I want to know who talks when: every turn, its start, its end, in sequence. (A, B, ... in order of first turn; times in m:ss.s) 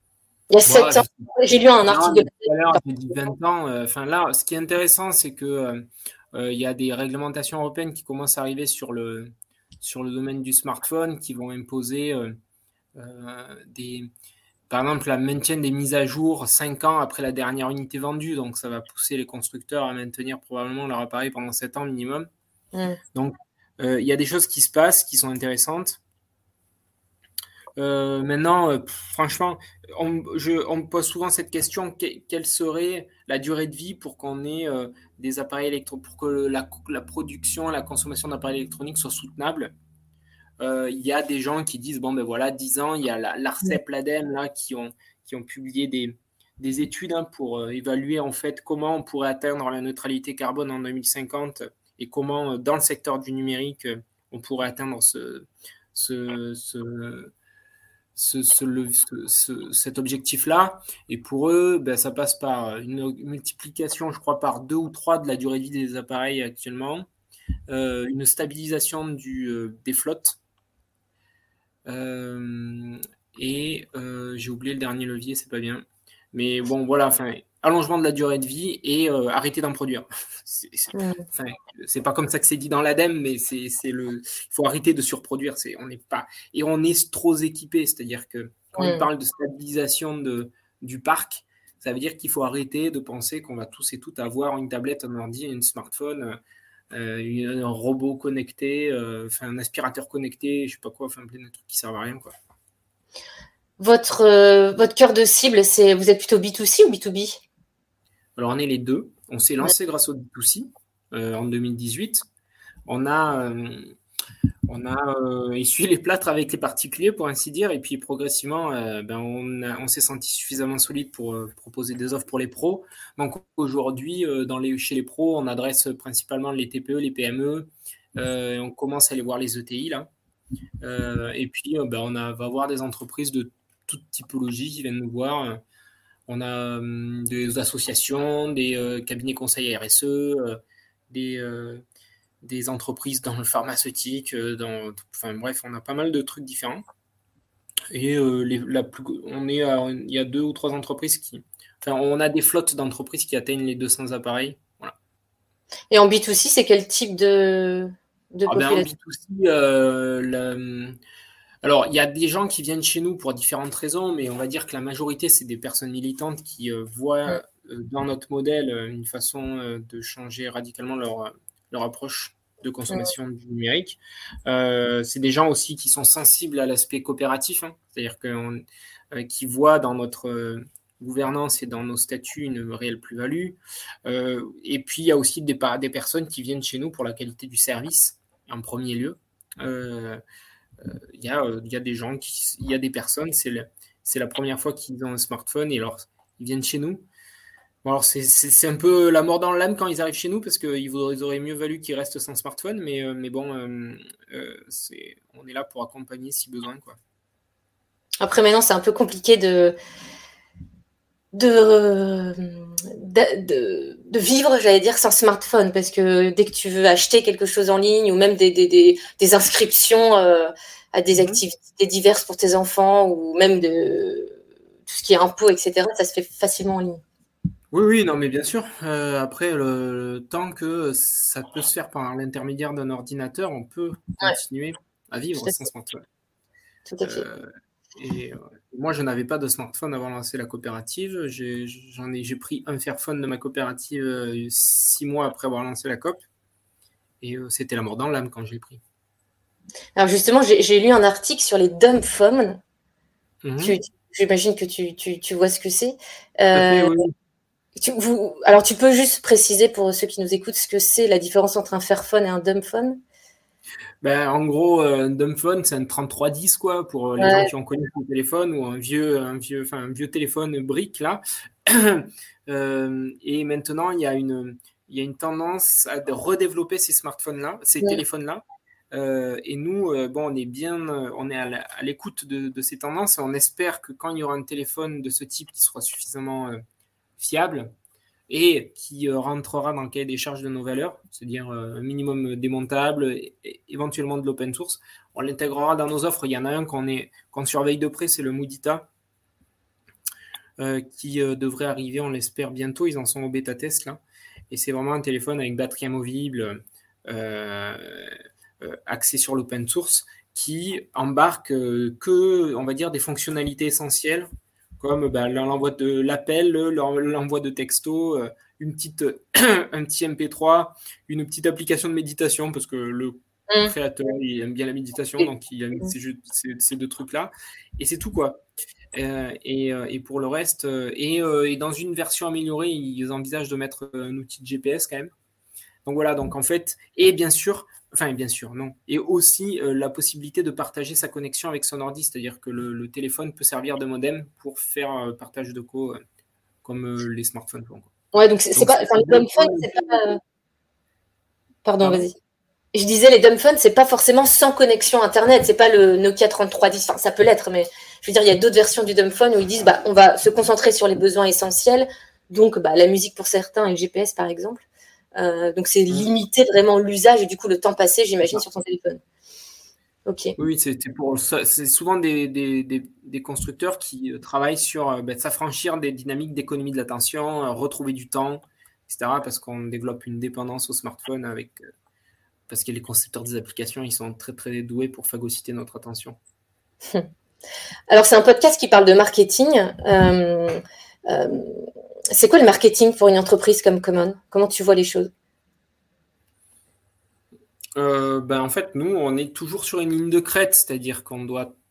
0:00.5-0:02.8 A
0:00.6-0:01.3 B
0:01.9-0:12.4 B
0:13.0-0:14.1 B
0:14.7-0:22.3 B
0:22.7-0:23.0 A
0:23.1-0:26.0 B
0:27.8-0:39.7 B
0:40.6-0:57.3 B
0:58.2-1:07.1 B
1:07.7-1:10.4 B
1:11.9-1:36.4 B
1:21.0-1:21.2 A
1:28.8-1:29.1 A
1:36.9-1:42.4 B
1:43.8-1:47.4 A
1:48.4-1:52.3 B
1:52.9-1:53.9 B
1:54.7-2:10.1 B
2:10.8-2:15.6 B
2:16.3-2:21.8 B
2:22.4-2:26.8 B
2:27.9-2:35.0 B
2:35.9-2:38.9 A
2:38.5-2:41.0 B
2:41.6-2:58.6 B
2:59.1-3:10.2 B
3:10.8-3:17.1 B
3:17.8-3:27.0 B
3:28.2-3:29.8 A
3:31.3-3:47.0 A
3:41.1-3:41.4 B
3:47.7-3:56.0 B
3:56.9-3:57.2 A
3:57.0-4:06.2 B
4:07.2-4:08.8 B
4:10.0-4:12.6 A
4:13.4-4:13.8 B
4:13.6-4:17.0 A
4:16.5-4:17.1 B
4:17.8-4:23.0 A
4:24.0-4:46.6 B
4:27.2-4:27.5 A
4:47.2-4:47.7 B
4:48.3-4:58.9 B
5:00.6-5:14.3 B
5:14.8-5:35.1 B
5:35.8-5:46.0 B
5:46.6-5:47.9 B
5:48.1-5:50.2 A
5:48.5-5:50.0 B
5:51.6-5:52.2 A
5:52.7-6:04.6 A
6:05.2-6:09.0 A
6:10.1-6:10.4 A
6:10.4-6:21.6 B
6:22.5-6:26.2 B
6:27.9-6:35.1 A
6:37.8-6:41.5 B